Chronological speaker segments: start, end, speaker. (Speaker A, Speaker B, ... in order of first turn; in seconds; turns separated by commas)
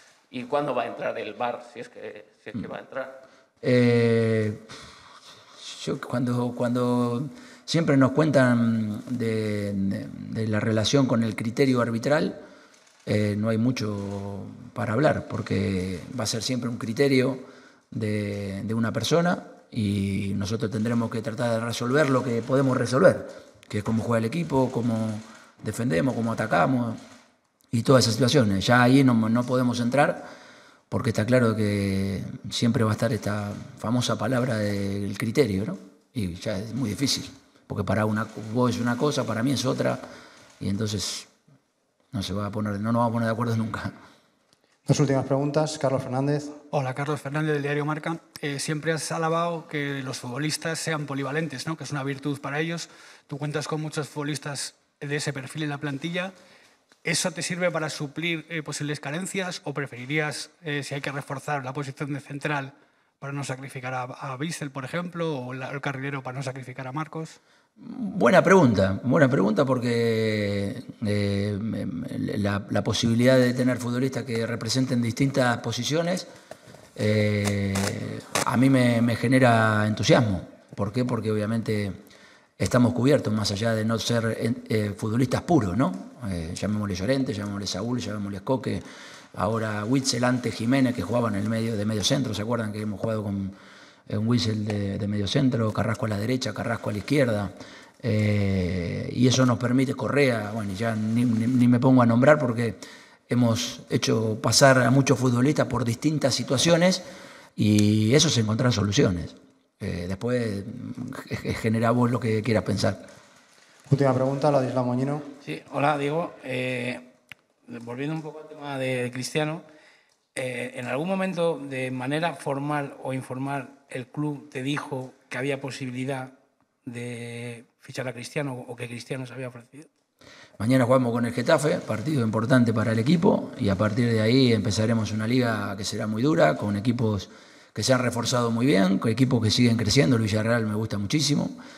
Speaker A: 0.3-3.2, Speaker B: 3.6-4.7, Speaker B: 5.6-12.4, Speaker B: 13.1-27.0, Speaker B: 27.7-30.3, Speaker B: 30.9-40.0, Speaker B: 40.6-41.3, Speaker B: 42.1-43.9, Speaker C: 44.9-46.6, Speaker D: 46.6-56.3, Speaker D: 57.0-67.4, Speaker B: 67.8-76.3, Speaker B: 77.0-82.0, Speaker B: 82.6-93.6, Speaker B: 94.1-107.0, Speaker B: 107.6-113.0, Speaker C: 113.9-115.3, Speaker E: 115.5-117.0, Speaker E: 117.7-119.6, Speaker E: 120.4-126.3, Speaker E: 126.9-129.9, Speaker B: 130.6-141.6